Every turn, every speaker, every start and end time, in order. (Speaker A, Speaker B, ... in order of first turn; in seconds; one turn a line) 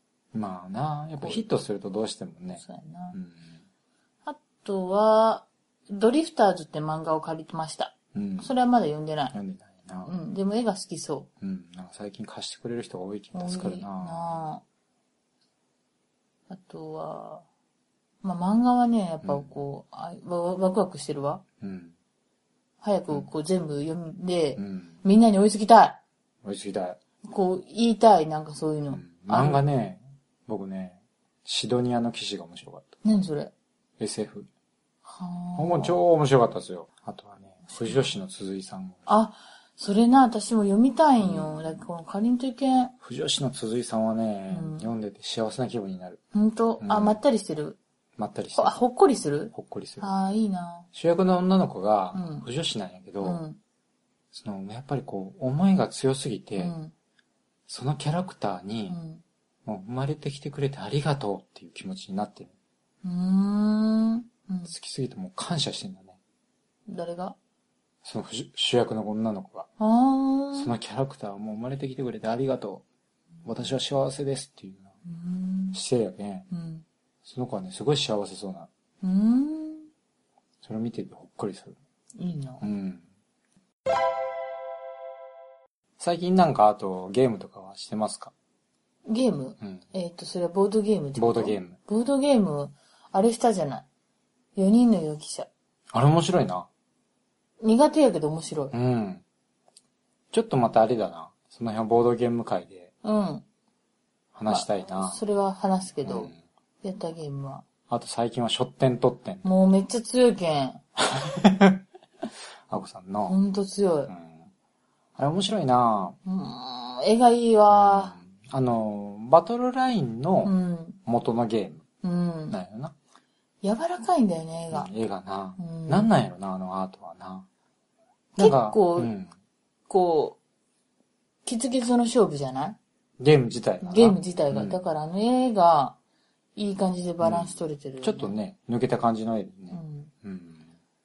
Speaker A: 0.3-2.6
Speaker B: 2.6-3.1
Speaker A: 3.1-3.5
Speaker B: 4.2-9.3
Speaker A: 8.1-8.5
Speaker A: 9.3-10.1
Speaker B: 10.0-11.3
Speaker A: 11.4-14.4
Speaker B: 13.3-14.6
Speaker B: 16.5-17.4
Speaker B: 18.2-21.4
Speaker A: 19.2-19.6
Speaker A: 21.6-21.9
Speaker B: 22.8-26.0
Speaker A: 24.6-25.0
Speaker A: 26.4-27.0
Speaker B: 27.2-29.6
Speaker A: 28.9-33.0
Speaker B: 33.0-33.5
Speaker A: 34.0-34.5
Speaker B: 35.0-36.0
Speaker A: 35.6-39.0
Speaker B: 37.7-38.1
Speaker B: 39.0-42.9
Speaker A: 41.2-41.8
Speaker A: 43.0-46.2
Speaker B: 44.5-44.9
Speaker B: 46.3-47.8
Speaker A: 46.8-47.2
Speaker A: 48.2-48.8
Speaker B: 48.5-50.9
Speaker A: 49.5-50.1
Speaker A: 50.9-53.4
Speaker B: 52.1-52.5
Speaker B: 53.2-53.6
Speaker A: 54.3-56.7
Speaker B: 56.6-56.9
Speaker A: 57.7-59.0
Speaker B: 58.9-59.2
Speaker A: 59.6-62.5
Speaker B: 63.0-64.7
Speaker A: 64.7-66.2
Speaker B: 66.9-67.4
Speaker A: 68.0-69.7
Speaker B: 69.8-70.7
Speaker A: 70.5-72.8
Speaker A: 73.4-74.9
Speaker B: 75.0-75.8
Speaker A: 75.7-76.5
Speaker B: 76.5-76.8
Speaker A: 77.2-78.7
Speaker B: 79.0-79.9
Speaker A: 80.6-81.7
Speaker B: 82.2-82.7
Speaker A: 82.6-83.0
Speaker A: 86.0-88.3
Speaker B: 89.1-93.8
Speaker A: 91.2-91.8
Speaker B: 94.5-95.5
Speaker A: 95.9-96.7
Speaker B: 97.6-98.7
Speaker A: 98.7-99.2
Speaker A: 100.3-102.9
Speaker B: 103.0-103.4
Speaker A: 104.3-105.2
Speaker B: 104.5-107.6
Speaker A: 106.0-106.3
Speaker A: 107.9-109.4
Speaker B: 109.4-110.8
Speaker A: 111.0-111.8
Speaker A: 112.7-113.4
Speaker B: 113.3-114.1
Speaker A: 114.1-114.5
Speaker A: 115.2-116.2
Speaker B: 116.2-118.1
Speaker A: 117.7-120.5
Speaker B: 120.4-121.0
Speaker A: 121.0-121.8
Speaker B: 122.0-122.6
Speaker A: 122.5-122.9
Speaker B: 123.6-124.9
Speaker A: 124.7-127.5
Speaker B: 125.6-126.1
Speaker A: 128.3-129.3
Speaker B: 128.4-129.1
Speaker B: 129.9-130.4
Speaker B: 131.4-132.8
Speaker A: 133.2-134.8
Speaker B: 133.8-136.0
Speaker B: 136.6-138.3
Speaker A: 137.2-140.7
Speaker B: 139.7-140.1